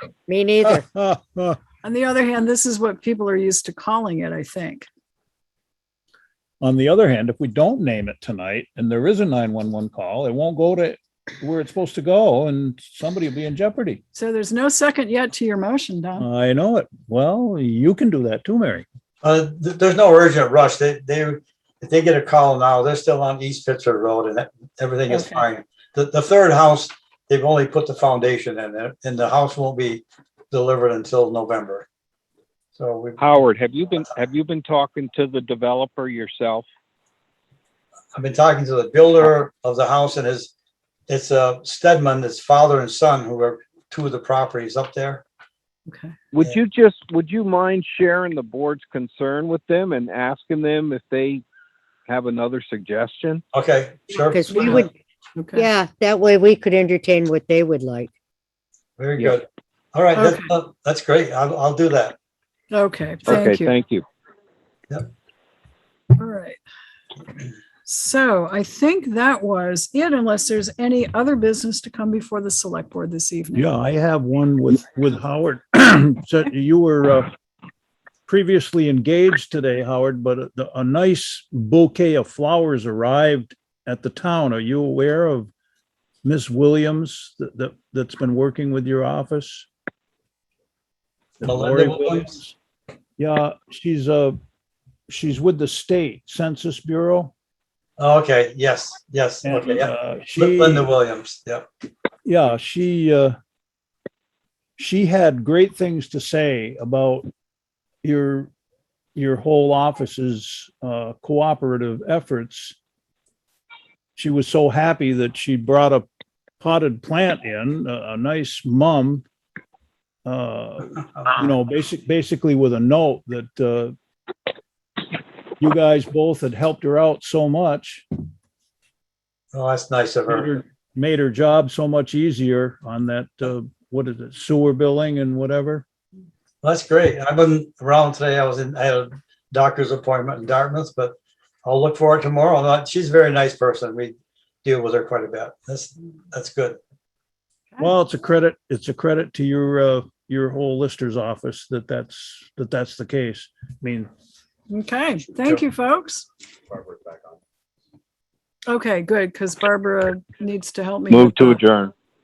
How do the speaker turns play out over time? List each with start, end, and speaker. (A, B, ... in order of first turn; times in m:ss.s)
0:00.3-0:00.9 A
0:00.9-0:01.6 B
0:01.8-0:04.9 C
0:06.6-0:14.0 B
0:14.1-0:16.3 C
0:16.2-0:18.8 B
0:19.2-0:31.9 D
0:25.1-0:25.4 C
0:32.8-0:33.2 D
0:33.2-0:36.6 E
0:38.1-0:40.5 D
0:41.1-0:45.2 D
0:45.9-0:46.1 C
0:46.3-0:51.4 E
0:52.1-0:53.4 E
0:53.5-0:54.8 D
0:54.3-0:54.9 A
0:54.5-0:55.7 C
0:55.5-0:58.1 A
0:59.0-1:02.2 D
1:00.2-1:00.5 C
1:02.7-1:03.7 C
1:03.2-1:04.0 E
1:06.2-1:06.6 C
1:07.8-1:13.7 C
1:13.5-1:17.3 B
1:18.3-1:25.5 B
1:26.2-1:29.7 B
1:31.4-1:32.6 B
1:31.4-1:32.4 D
1:33.2-1:34.4 B
1:35.1-1:37.3 B
1:38.0-1:41.6 D
1:39.4-1:40.9 B
1:42.2-1:43.4 B
1:44.8-1:47.3 B
1:48.0-1:48.5 B
1:49.2-1:52.8 B
1:54.2-1:56.0 B
1:56.6-1:59.2 B
2:00.2-2:03.9 B
2:05.6-2:08.0 B
2:09.5-2:10.5 D
2:10.3-2:15.8 B
2:16.6-2:26.8 D
2:27.8-2:34.1 B
2:34.7-2:36.3 C
2:38.7-2:41.6 C
2:41.1-2:41.9 E